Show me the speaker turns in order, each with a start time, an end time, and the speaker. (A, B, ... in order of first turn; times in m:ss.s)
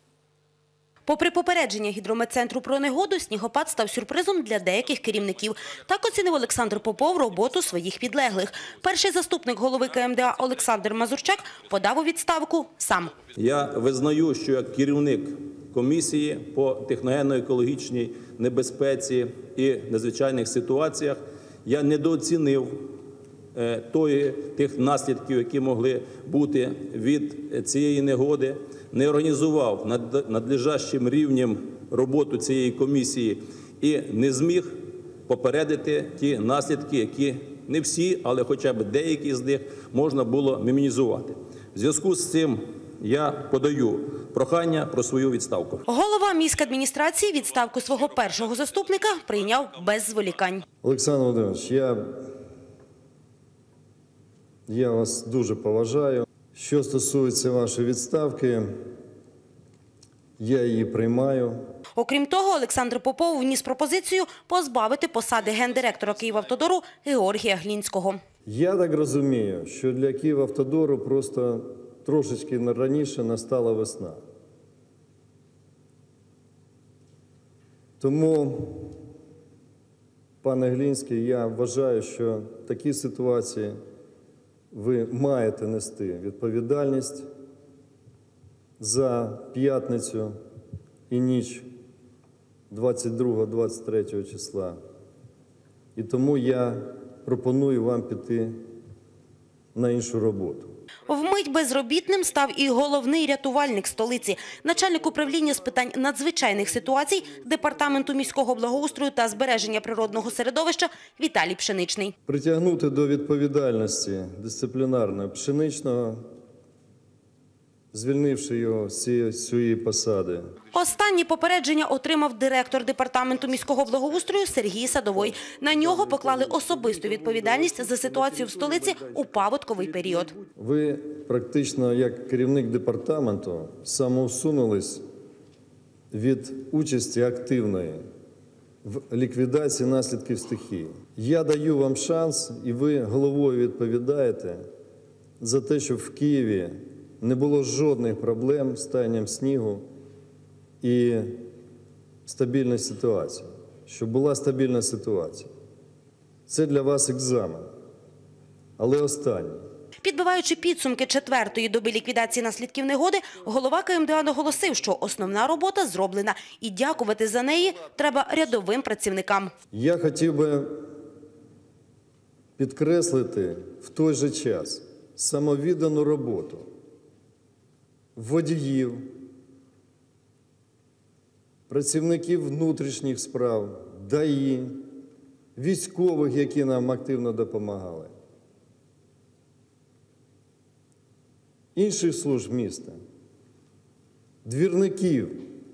0:01.0-0:13.2 A
0:13.3-0:22.9 B
0:23.5-0:45.8 B
0:45.9-0:50.6 A
0:50.8-0:52.0 C
0:54.7-0:58.7 C
1:00.4-1:01.6 C
1:02.0-1:08.2 A
1:08.4-1:14.2 C
1:18.0-1:19.0 C
1:20.4-1:23.7 C
1:24.7-1:27.3 C
1:28.8-1:30.3 C
1:31.1-1:31.7 C
1:32.7-1:34.8 C
1:36.0-1:38.6 C
1:39.7-1:40.7 C
1:41.0-1:52.1 A
1:52.3-1:56.2 C
1:57.9-2:00.6 C
2:00.7-2:10.3 A
2:05.1-2:15.0 C
2:16.1-2:18.0 C
2:18.8-2:24.6 C
2:25.4-2:29.8 C
2:30.8-2:31.5 C
2:32.2-2:35.5 C
2:36.5-2:37.7 C
2:38.8-2:39.6 C
2:40.0-2:49.5 A
2:49.7-2:50.8 C
2:52.6-2:56.7 C
2:58.2-2:59.2 C
3:01.7-3:04.8 C
3:05.6-3:08.1 C
3:11.7-3:13.0 C
3:14.4-3:15.4 C